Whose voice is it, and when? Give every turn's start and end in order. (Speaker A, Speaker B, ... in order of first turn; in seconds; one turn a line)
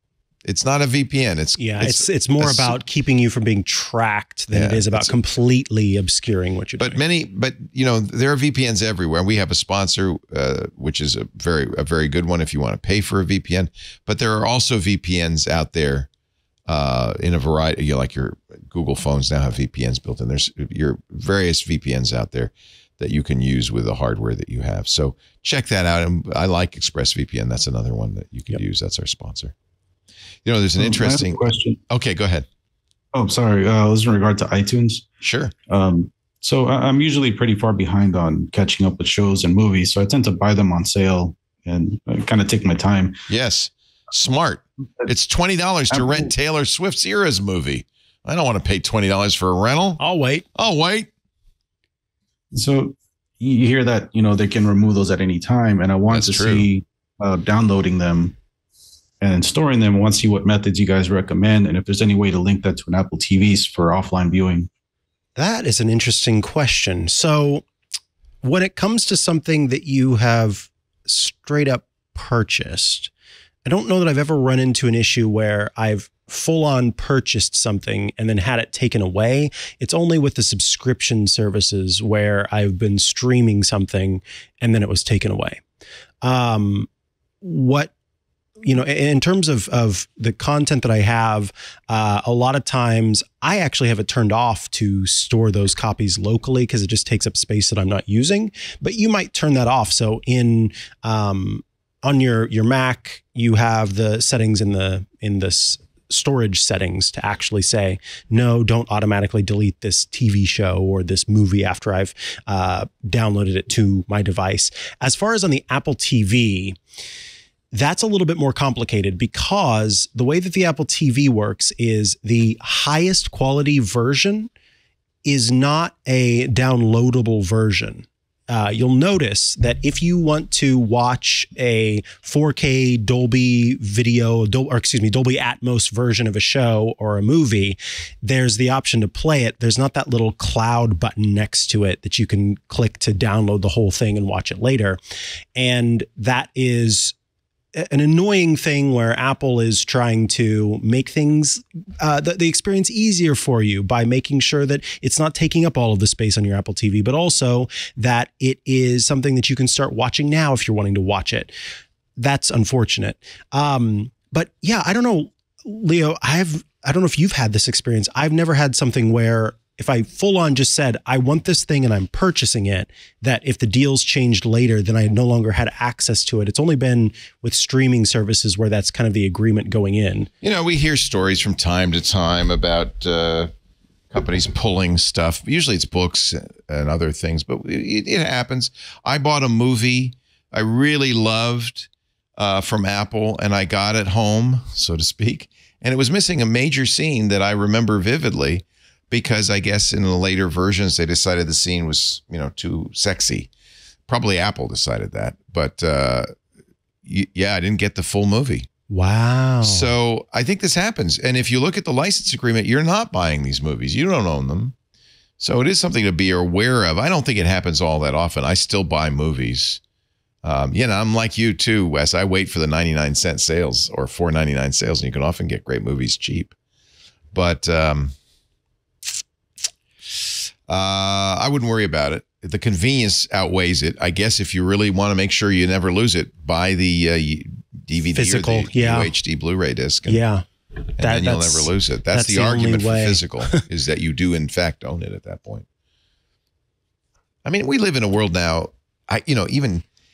Speaker A: 0.4-2.8
Speaker B: 1.6-7.0
Speaker A: 4.5-5.1
Speaker A: 6.8-16.1
Speaker A: 16.7-29.5
Speaker A: 30.4-32.5
Speaker C: 30.8-31.8
Speaker C: 33.1-35.0
Speaker A: 35.2-35.5
Speaker C: 35.7-43.1
Speaker A: 43.3-50.0
Speaker C: 45.9-46.3
Speaker B: 50.0-50.5
Speaker A: 50.5-51.1
Speaker C: 52.5-58.3
Speaker A: 56.1-56.7
Speaker C: 59.2-64.7
Speaker B: 65.3-67.6
Speaker B: 68.4-73.1
Speaker B: 73.6-85.6
Speaker B: 86.2-86.9
Speaker B: 87.4-87.9
Speaker B: 88.6-116.8
Speaker B: 117.7-124.5
Speaker B: 125.2-145.0
Speaker B: 145.5-147.1
Speaker B: 147.7-161.5
Speaker B: 162.2-180.3
Speaker A: 180.4-183.5
Speaker A: 184.1-203.5
Speaker A: 204.1-206.3
Speaker A: 207.0-208.7
Speaker B: 208.9-209.9
Speaker A: 209.6-214.7
Speaker A: 215.4-219.8
Speaker A: 220.4-226.5
Speaker A: 227.3-228.1
Speaker A: 230.7-240.2
Speaker B: 238.1-239.1
Speaker B: 240.1-240.4
Speaker B: 241.0-243.6
Speaker A: 241.0-245.6
Speaker A: 247.4-249.8